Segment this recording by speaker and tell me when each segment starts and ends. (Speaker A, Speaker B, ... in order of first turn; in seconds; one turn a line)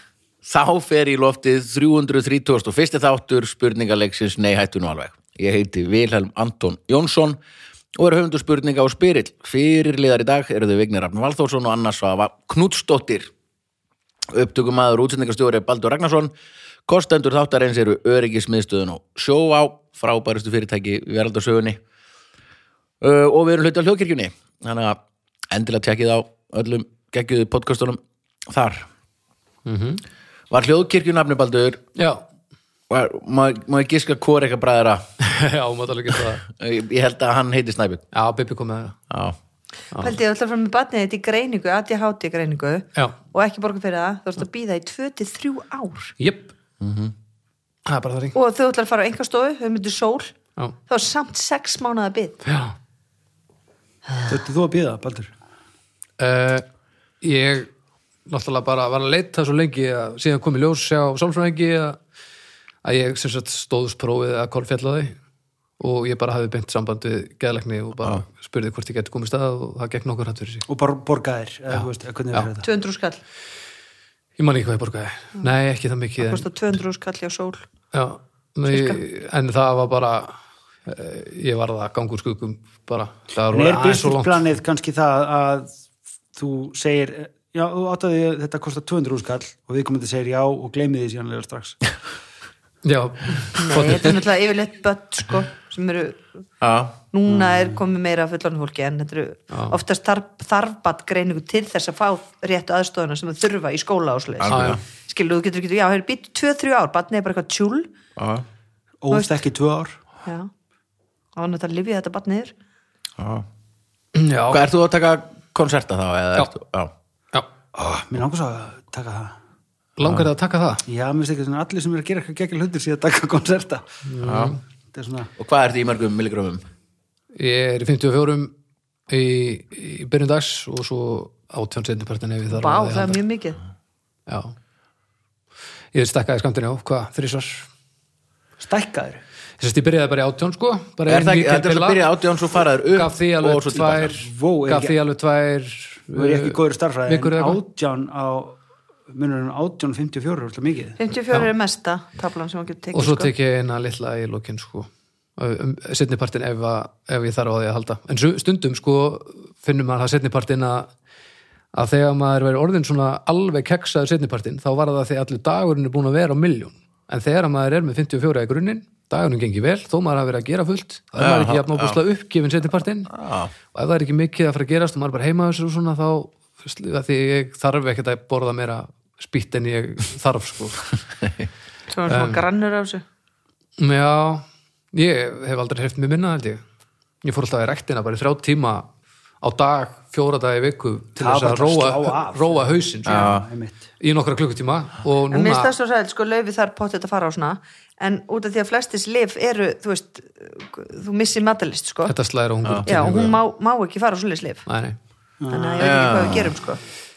Speaker A: 0.4-7.4
Speaker A: 7.9-13.3
Speaker A: 14.3-16.3
Speaker A: 16.9-21.8
Speaker A: 23.0-25.0
Speaker A: 25.5-28.9
Speaker B: 29.6-30.0
Speaker A: 30.5-31.8
Speaker B: 31.9-32.2
Speaker A: 32.9-35.1
Speaker B: 35.2-36.4
Speaker A: 36.5-38.0
Speaker B: 38.1-39.0
Speaker A: 39.1-39.4
Speaker C: 40.0-46.1
Speaker B: 46.2-46.5
Speaker A: 46.8-47.1
Speaker B: 47.9-48.4
Speaker C: 48.3-50.3
Speaker C: 50.9-52.4
Speaker B: 52.4-52.8
Speaker D: 54.3-55.3
Speaker B: 56.2-56.6
Speaker B: 57.2-57.7
Speaker B: 58.3-62.0
Speaker B: 62.8-65.2
Speaker B: 65.8-70.7
Speaker D: 70.7-72.7
Speaker B: 71.7-72.5
Speaker C: 72.6-73.2
Speaker B: 74.4-76.5
Speaker C: 76.2-77.6
Speaker B: 77.9-80.3
Speaker C: 78.7-79.0
Speaker B: 80.8-84.4
Speaker D: 83.5-85.7
Speaker D: 86.3-91.8
Speaker B: 92.8-94.1
Speaker C: 93.5-96.3
Speaker A: 96.6-97.0
Speaker C: 97.1-107.9
Speaker B: 99.5-99.8
Speaker A: 104.4-104.8
Speaker B: 104.5-104.8
Speaker A: 108.2-108.4
Speaker D: 109.0-110.0
Speaker C: 109.1-109.4
Speaker C: 110.2-110.5
Speaker C: 111.3-112.5
Speaker A: 113.2-113.5
Speaker B: 114.1-114.6
Speaker A: 114.5-116.9
Speaker D: 117.7-119.3
Speaker B: 120.0-120.8
Speaker D: 120.9-124.0
Speaker B: 124.0-124.6
Speaker A: 124.2-124.5
Speaker D: 124.9-125.3
Speaker A: 125.4-126.6
Speaker B: 127.3-128.5
Speaker B: 129.1-133.2
Speaker C: 132.5-133.6
Speaker B: 134.3-134.5
Speaker B: 135.9-137.7
Speaker D: 138.6-139.2
Speaker B: 139.6-142.0
Speaker A: 141.1-144.1
Speaker B: 142.9-147.6
Speaker D: 143.8-145.0
Speaker D: 146.1-151.0
Speaker C: 151.0-153.3
Speaker B: 152.9-160.9
Speaker B: 161.7-173.1
Speaker A: 171.2-172.0
Speaker A: 173.1-173.5
Speaker B: 173.7-180.9
Speaker C: 181.9-183.0
Speaker B: 182.1-182.4
Speaker B: 183.8-186.6
Speaker B: 187.2-188.9
Speaker B: 189.4-193.3
Speaker D: 191.2-193.8
Speaker A: 193.1-193.4
Speaker B: 194.0-195.7
Speaker C: 195.3-202.1
Speaker B: 202.0-203.4
Speaker C: 202.8-204.7
Speaker B: 204.7-205.0
Speaker D: 205.4-206.1
Speaker C: 205.5-206.8
Speaker A: 205.8-206.6